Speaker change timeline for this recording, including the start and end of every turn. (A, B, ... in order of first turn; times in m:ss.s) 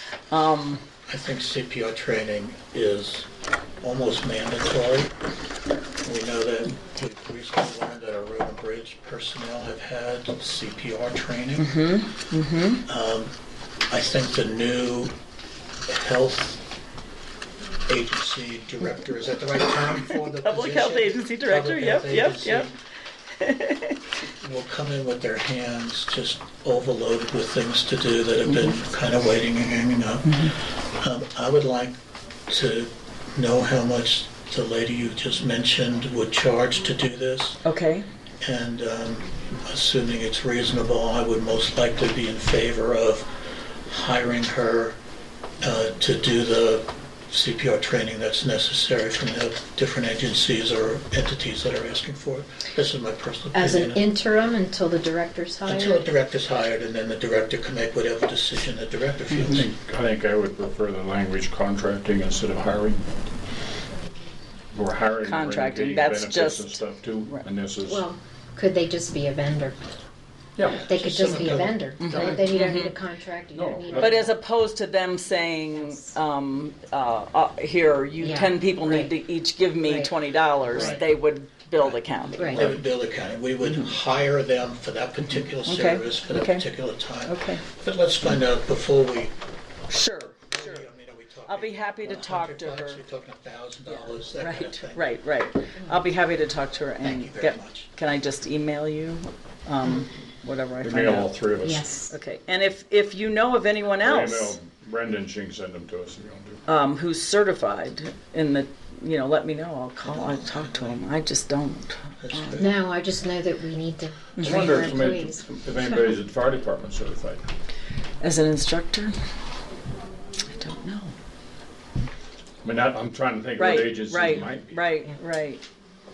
0:00.3-0:00.8 A
0:01.1-0:03.3 B
0:03.8-0:05.1 B
0:06.0-0:11.8 B
0:11.6-0:12.8 A
0:12.8-0:13.3 B
0:13.9-0:15.1 B
0:15.9-0:16.6 B
0:17.9-0:22.8 B
0:20.2-0:22.7 A
0:23.4-0:24.0 A
0:24.4-0:37.6 B
0:30.3-0:30.5 A
0:37.6-0:38.0 A
0:38.4-0:43.3 B
0:43.8-0:45.0 B
0:45.6-0:54.0 B
0:53.5-0:56.0 C
0:55.6-0:59.7 B
0:59.3-1:03.0 D
1:04.7-1:08.0 D
1:05.2-1:07.4 A
1:07.8-1:09.8 C
1:10.6-1:10.9 D
1:10.7-1:11.9 B
1:10.8-1:14.4 C
1:12.0-1:13.0 A
1:12.0-1:12.4 D
1:13.5-1:14.3 D
1:14.0-1:22.8 A
1:15.8-1:16.1 C
1:18.2-1:19.1 C
1:19.8-1:20.1 C
1:20.7-1:21.0 D
1:21.8-1:29.3 B
1:22.4-1:22.7 C
1:23.6-1:23.9 A
1:25.6-1:26.6 A
1:27.2-1:27.6 A
1:29.9-1:30.8 A
1:30.2-1:35.1 B
1:31.4-1:33.0 A
1:34.4-1:41.3 A
1:37.0-1:37.9 B
1:40.8-1:41.8 D
1:41.6-1:42.1 C
1:42.1-1:44.6 A
1:44.0-1:46.6 D
1:46.7-1:52.7 A
1:50.0-1:51.0 B
1:52.2-1:52.7 B
1:52.6-1:55.4 C
1:54.4-1:54.8 A
1:54.4-1:57.4 D
1:58.2-1:59.1 A
2:00.6-2:01.1 A
2:02.6-2:04.7 D
2:03.6-2:05.6 A